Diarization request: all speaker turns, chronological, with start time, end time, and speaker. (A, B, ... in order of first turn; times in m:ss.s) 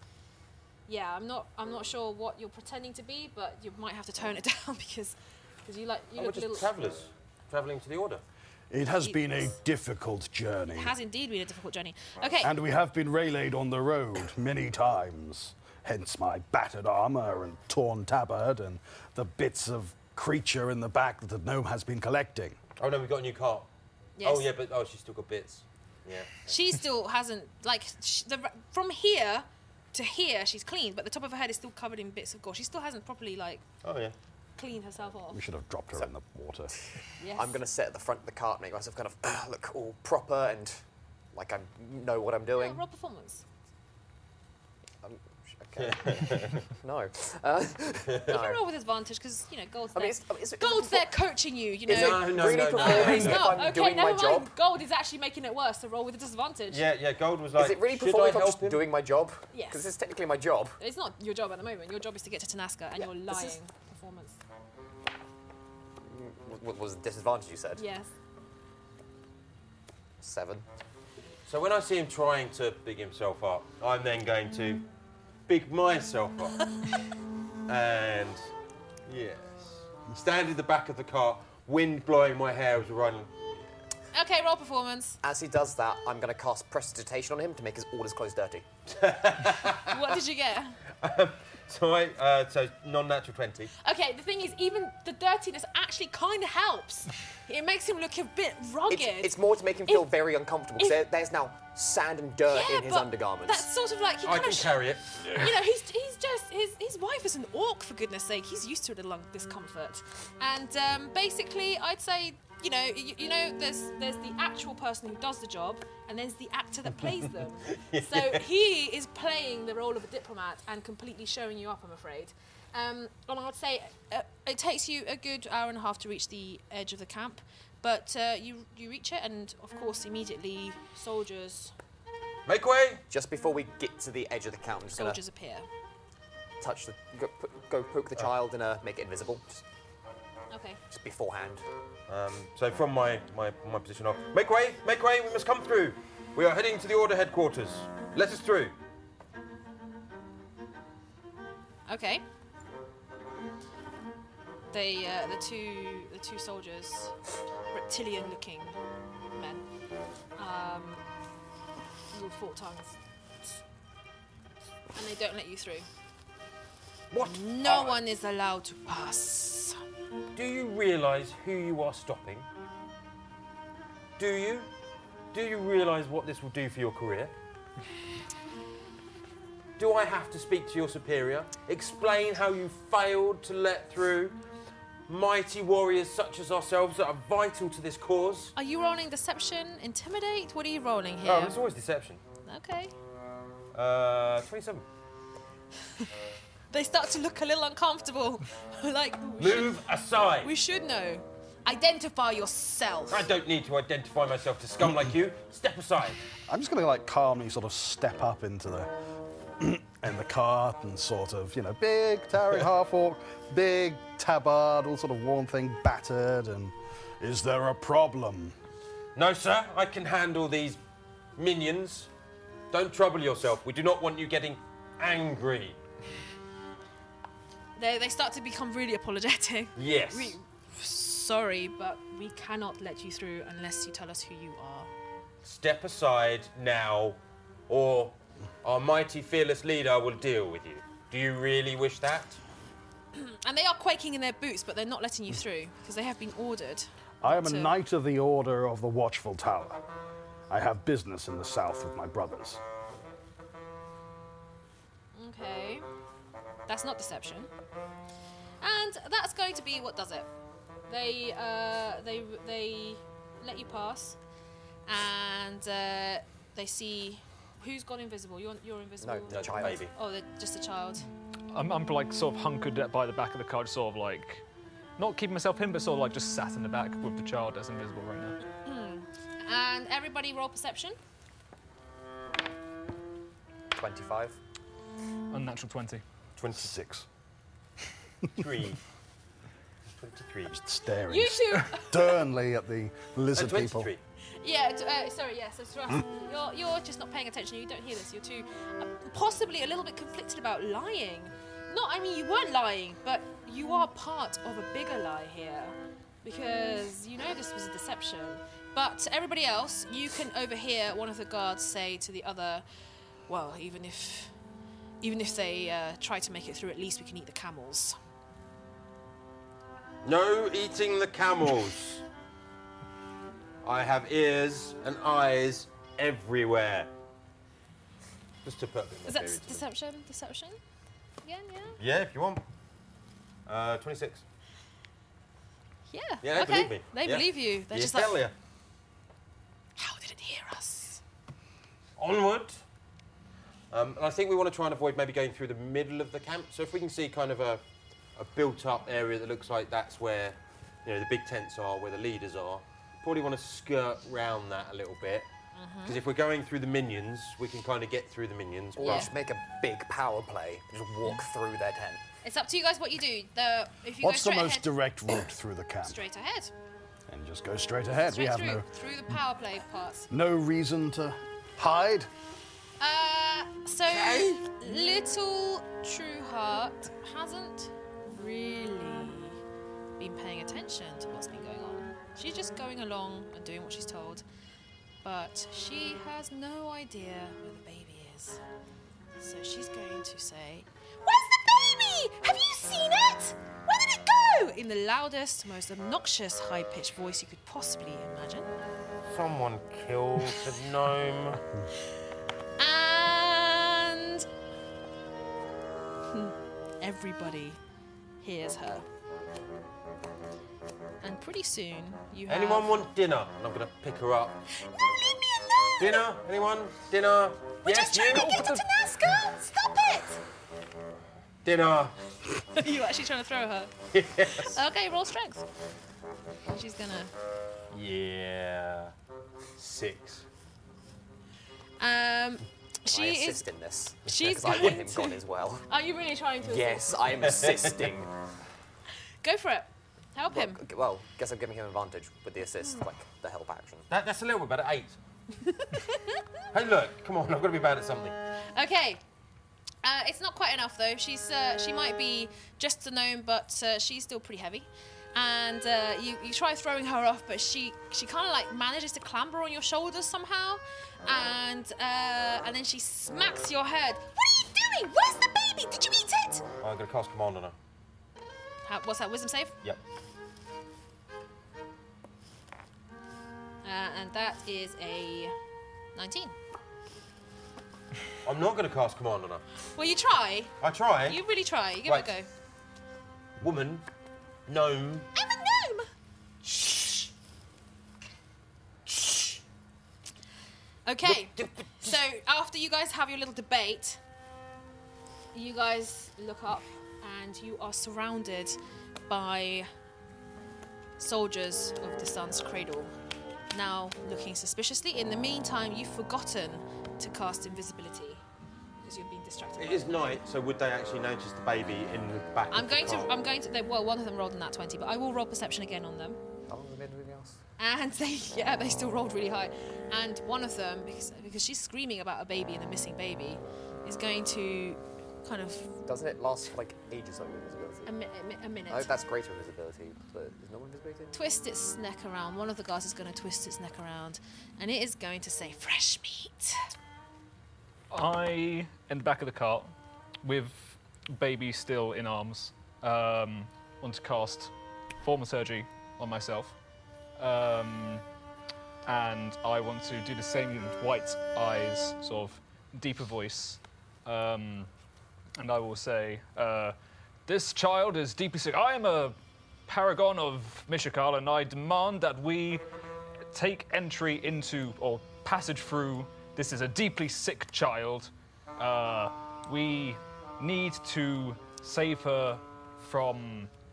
0:00.9-0:06.7 A
0:06.2-0:08.2 B
0:08.7-0:11.0 C
0:09.0-0:09.5 A
0:10.8-0:12.5 A
0:12.4-0:22.6 C
0:22.8-0:23.7 B
0:24.2-0:24.5 A
0:24.2-0:26.3 B
0:26.5-0:33.6 A
0:33.8-0:34.2 B
0:34.6-0:35.4 A
0:35.3-0:36.7 C
0:37.2-0:37.6 A
0:37.4-0:40.8 D
0:41.3-0:42.8 D
0:42.6-0:43.4 A
0:45.0-0:48.6 D
0:45.8-0:46.6 B
0:48.1-0:48.3 B
0:48.3-0:56.8 A
0:50.0-0:51.1 D
0:51.9-0:54.5 D
0:51.9-0:53.7 B
0:56.7-0:58.8 B
0:57.6-1:00.8 D
0:59.5-0:59.8 A
1:00.8-1:04.4 A
1:03.0-1:03.6 D
1:06.0-1:07.8 D
1:07.8-1:08.1 A
1:10.2-1:10.7 D
1:11.5-1:14.8 B
1:15.5-1:16.7 B
1:17.7-1:18.5 B
1:19.1-1:23.4 B
1:24.1-1:25.2 A
1:25.2-1:28.7 D
1:28.9-1:30.2 B
1:29.9-1:30.8 A
1:30.9-1:33.7 B
1:33.8-1:40.1 A
1:38.9-1:43.7 D
1:40.8-1:41.0 A
1:42.5-2:11.7 A
1:44.2-1:45.5 B
1:57.7-1:58.4 B
2:12.5-2:13.0 B
2:13.1-2:15.2 D
2:14.9-2:15.7 A
2:16.6-2:19.6 D
2:20.5-2:20.8 A
2:20.9-2:21.6 D
2:22.1-2:28.7 B
2:31.9-2:32.2 A
2:34.7-2:37.2 A
2:37.7-2:38.8 A
2:39.4-2:39.6 A
2:40.4-2:41.0 A
2:42.1-2:43.0 A
2:45.0-2:45.9 A
2:47.1-2:48.0 B
2:47.2-2:49.8 A
2:50.4-2:52.5 B
2:54.2-2:54.7 B
2:55.3-2:57.3 B
2:59.8-3:04.4 B
3:05.1-3:08.5 B
3:08.6-3:11.6 A
3:11.2-3:12.2 B
3:12.5-3:12.9 A
3:13.7-3:14.9 B
3:16.7-3:23.3 A
3:19.4-3:20.5 B
3:23.1-3:26.2 B
3:26.5-3:28.9 C
3:29.6-3:38.6 C
3:39.2-3:40.8 B
3:41.4-3:42.1 B
3:42.7-3:45.8 B
3:47.8-3:54.9 A
3:49.8-3:50.4 B
3:55.4-4:02.4 B
4:03.1-4:07.7 A
4:07.2-4:09.8 C
4:10.5-4:12.6 C
4:15.2-4:15.9 A
4:16.7-4:17.5 A
4:18.6-4:20.3 A
4:20.9-4:24.2 A
4:24.9-4:31.1 A
4:29.0-4:29.9 D
4:29.3-4:29.9 B
4:31.5-4:34.4 E
4:35.0-4:38.4 E
4:38.6-4:41.0 A
4:43.7-4:44.4 D
4:45.3-4:46.0 E
4:46.4-4:46.7 B
4:46.6-4:47.1 C
4:48.4-4:48.8 B
4:49.9-4:50.6 B
4:50.5-4:53.9 C
4:51.1-4:52.2 A
4:53.4-4:54.0 B
4:54.4-5:12.6 A
5:13.3-5:14.3 A
5:15.0-5:18.0 A
5:20.0-5:22.0 B
5:23.6-5:26.9 B
5:28.4-5:29.6 B
5:29.1-5:30.6 A
5:31.2-5:31.8 A
5:31.8-5:32.4 B
5:33.5-5:34.2 B
5:35.9-5:38.2 A
5:36.2-5:38.3 B
5:39.8-5:41.0 A
5:42.0-5:42.6 B
5:43.7-5:47.6 B
5:48.2-5:55.3 B
5:55.6-5:56.0 A
5:55.8-5:59.1 B
5:58.8-6:02.0 D
5:58.8-5:59.1 A
6:02.2-6:04.7 A
6:04.0-6:06.0 C
6:05.8-6:06.5 A
6:07.1-6:08.7 C
6:08.1-6:10.1 A
6:10.1-6:12.1 C
6:12.8-6:19.4 A
6:14.0-6:14.4 B
6:20.0-6:24.2 A
6:25.0-6:28.4 A
6:29.2-6:38.5 A
6:39.1-6:41.4 B
6:42.6-6:44.3 A
6:46.1-6:47.6 A
6:48.2-6:48.9 A
6:51.0-6:52.7 A
6:52.3-6:54.4 B
6:54.6-6:56.0 A
6:55.8-6:58.4 B
6:57.6-7:00.2 A
6:58.1-6:58.6 E
7:01.4-7:02.0 B
7:02.5-7:03.7 A
7:03.9-7:04.6 B
7:04.4-7:05.5 A
7:06.4-7:07.1 A
7:07.7-7:08.9 B
7:09.6-7:10.2 B
7:11.8-7:13.5 A
7:12.9-7:15.6 D
7:14.0-7:17.2 A
7:16.4-7:18.1 D
7:17.4-7:17.9 B
7:19.2-7:20.6 A
7:20.3-7:23.9 D
7:23.9-7:25.0 B
7:25.4-7:26.2 A
7:26.5-7:28.2 B
7:28.5-7:29.0 A
7:29.8-7:46.4 A
7:46.6-7:47.6 B
7:48.6-7:49.6 A
7:53.6-7:55.4 A
7:56.0-7:56.3 A
7:58.2-7:59.4 B
7:59.7-8:02.3 A
8:00.6-8:01.2 B
8:03.4-8:03.8 B
8:04.5-8:05.1 B
8:05.2-8:05.9 A
8:06.4-8:07.1 A
8:08.9-8:09.3 A
8:10.9-8:14.0 A
8:11.0-8:12.0 B
8:15.3-8:18.6 A
8:19.1-8:19.7 A
8:21.0-8:22.9 A
8:23.5-8:28.2 A
8:28.8-8:30.1 A
8:29.6-8:33.1 B
8:32.5-8:36.2 A
8:36.5-8:37.4 D
8:37.6-8:45.8 A
8:45.9-8:47.9 D
8:47.8-8:48.9 A
8:48.7-8:51.1 D
8:51.1-8:56.6 A
8:57.9-8:59.7 E
9:00.2-9:06.6 E
9:07.2-9:08.0 E
9:08.9-9:14.7 E
9:15.4-9:16.8 E
9:17.3-9:19.2 E
9:19.7-9:22.6 E
9:23.3-9:33.5 E